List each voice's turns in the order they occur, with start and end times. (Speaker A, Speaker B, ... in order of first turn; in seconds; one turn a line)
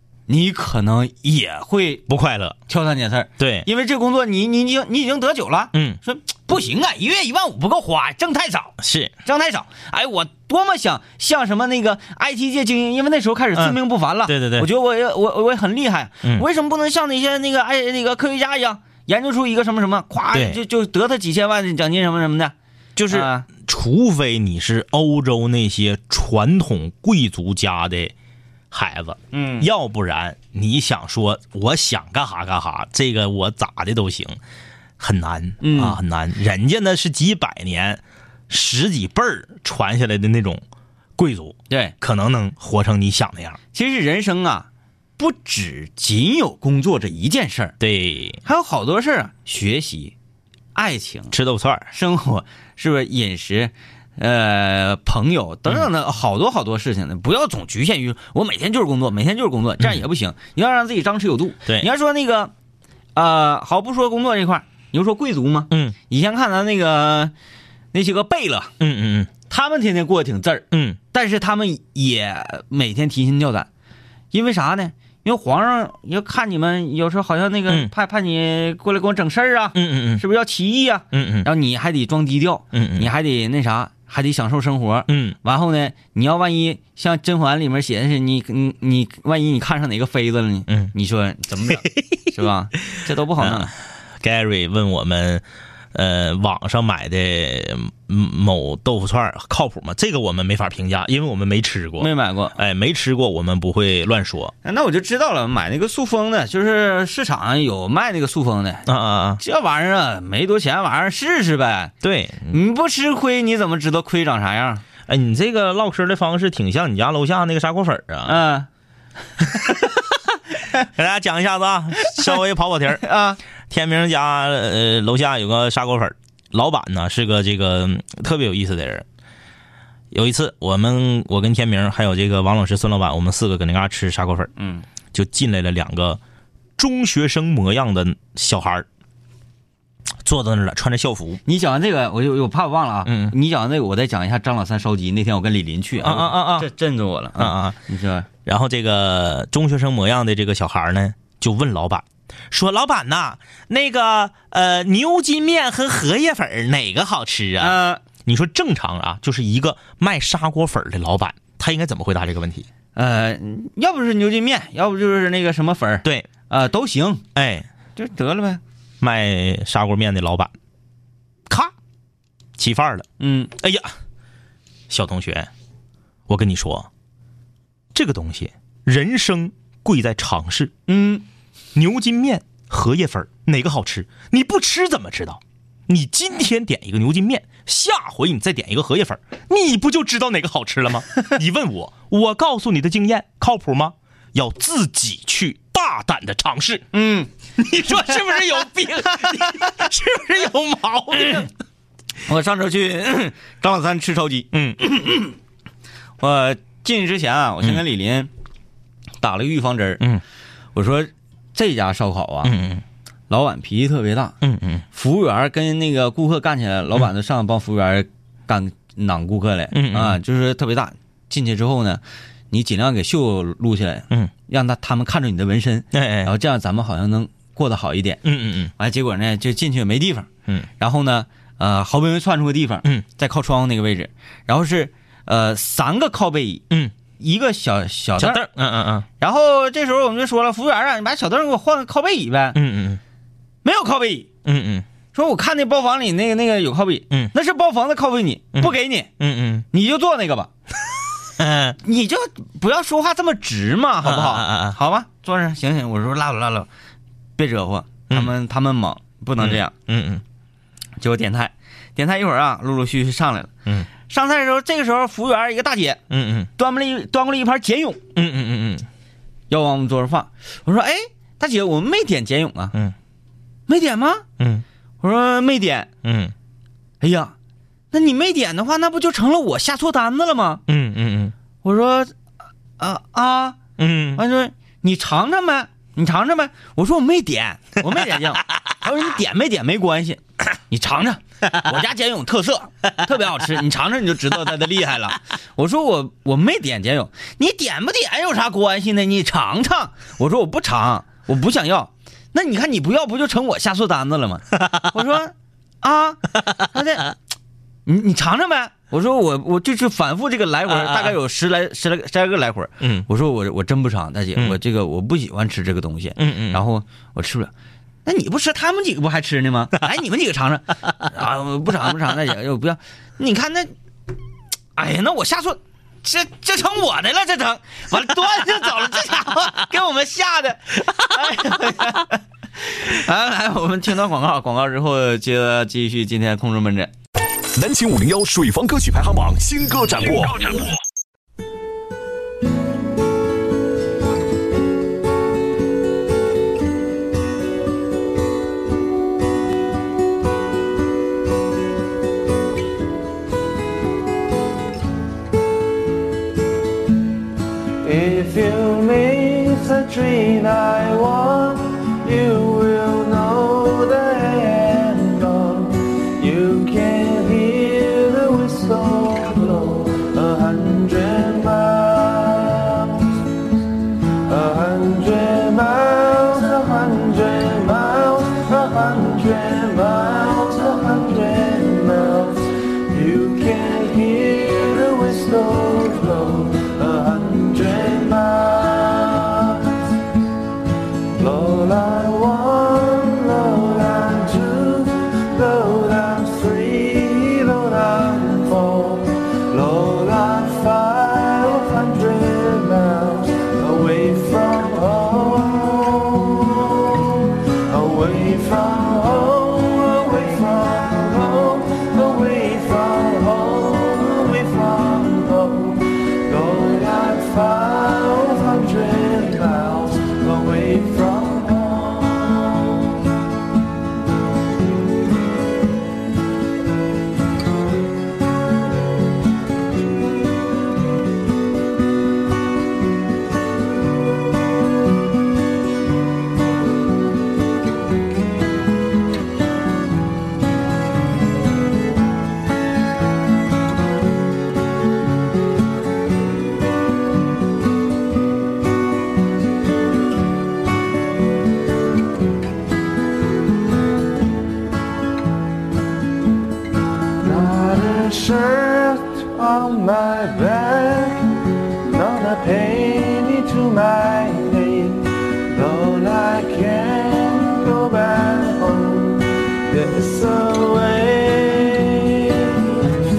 Speaker A: 0.3-2.0
Speaker B: 2.1-2.6
Speaker A: 2.7-22.5
Speaker B: 3.4-3.7
Speaker B: 5.7-6.0
Speaker B: 8.8-9.1
Speaker B: 13.5-14.7
Speaker B: 20.3-20.6
Speaker B: 22.9-28.1
Speaker A: 23.1-23.5
Speaker B: 28.7-34.4
Speaker A: 29.3-29.7
Speaker B: 35.0-40.6
Speaker A: 35.6-36.0
Speaker B: 41.2-43.6
Speaker A: 43.7-47.7
Speaker B: 47.8-48.4
Speaker A: 48.4-50.1
Speaker A: 50.7-51.3
Speaker B: 51.3-51.9
Speaker A: 51.9-62.5
Speaker A: 63.1-67.3
Speaker B: 65.7-66.0
Speaker A: 67.9-68.7
Speaker B: 68.8-69.3
Speaker A: 69.5-73.7
Speaker B: 70.7-71.0
Speaker A: 74.3-93.7
Speaker B: 79.7-80.2
Speaker B: 81.1-81.5
Speaker B: 82.7-83.1
Speaker B: 85.1-85.4
Speaker B: 93.4-104.5
Speaker A: 102.0-102.5
Speaker A: 104.6-108.8
Speaker B: 108.8-109.4
Speaker A: 109.4-111.9
Speaker B: 112.0-112.6
Speaker A: 112.5-114.8
Speaker B: 115.1-118.4
Speaker A: 118.2-118.7
Speaker B: 119.4-120.0
Speaker B: 120.8-123.0
Speaker A: 123.0-123.4
Speaker B: 123.7-129.0
Speaker B: 130.1-134.5
Speaker A: 134.6-134.8
Speaker B: 135.1-136.2
Speaker B: 136.8-138.8
Speaker B: 140.2-141.4
Speaker A: 141.4-148.3
Speaker B: 143.0-143.3
Speaker B: 146.0-146.7
Speaker B: 147.4-147.8
Speaker B: 148.4-162.7
Speaker A: 157.6-158.0
Speaker A: 162.9-167.2
Speaker B: 166.0-166.3
Speaker B: 167.3-167.7
Speaker A: 167.9-168.6
Speaker B: 169.0-170.5
Speaker B: 172.6-173.1
Speaker A: 173.2-173.5
Speaker B: 173.6-173.9
Speaker B: 174.9-175.5
Speaker B: 176.3-176.9
Speaker B: 177.9-180.7
Speaker A: 180.9-181.2
Speaker B: 181.7-196.8
Speaker A: 196.9-199.7
Speaker B: 197.6-201.5
Speaker A: 201.1-201.4
Speaker A: 202.2-205.3
Speaker B: 204.5-204.8
Speaker A: 206.2-208.3
Speaker A: 209.2-210.0
Speaker A: 210.7-212.5
Speaker B: 212.4-212.8
Speaker A: 213.3-214.3
Speaker B: 214.4-214.8
Speaker A: 214.9-228.2
Speaker B: 219.7-220.2
Speaker B: 225.9-226.3
Speaker B: 228.2-228.7
Speaker A: 228.8-236.6
Speaker A: 237.2-238.4
Speaker B: 238.2-239.1
Speaker A: 239.2-242.6
Speaker B: 242.5-243.0
Speaker A: 243.6-244.3
Speaker B: 244.4-244.8
Speaker A: 245.1-249.1
Speaker B: 248.6-249.7
Speaker A: 249.7-250.5
Speaker B: 251.4-251.8
Speaker A: 251.8-256.7
Speaker B: 254.0-254.8
Speaker A: 257.4-259.7
Speaker B: 259.4-260.2
Speaker A: 261.0-263.5
Speaker A: 264.1-266.0
Speaker B: 266.1-266.5
Speaker A: 266.6-268.0
Speaker B: 268.1-268.9
Speaker A: 269.5-272.7
Speaker A: 273.7-274.2
Speaker B: 274.4-274.6
Speaker A: 275.0-275.9
Speaker B: 276.0-276.3
Speaker A: 277.0-277.3
Speaker A: 277.9-280.6
Speaker B: 280.7-281.3
Speaker A: 281.6-282.1
Speaker A: 282.8-283.6
Speaker B: 283.8-284.2
Speaker A: 284.1-307.1
Speaker A: 307.9-317.5
Speaker B: 310.7-311.1
Speaker B: 312.8-313.1
Speaker B: 316.2-316.6
Speaker A: 318.0-323.7
Speaker A: 324.8-336.9
Speaker C: 337.5-340.7
Speaker D: 357.8-372.6
Speaker A: 357.9-373.0
Speaker D: 374.3-382.3
Speaker A: 374.4-389.6
Speaker D: 382.9-389.1
Speaker A: 391.2-406.1
Speaker D: 391.2-422.6
Speaker A: 407.6-411.9
Speaker A: 412.4-415.6
Speaker A: 416.3-420.9
Speaker A: 457.2-461.2
Speaker D: 457.2-469.2
Speaker A: 461.9-465.0
Speaker A: 465.5-469.0
Speaker D: 469.7-471.8
Speaker A: 469.7-472.5
Speaker D: 472.4-472.6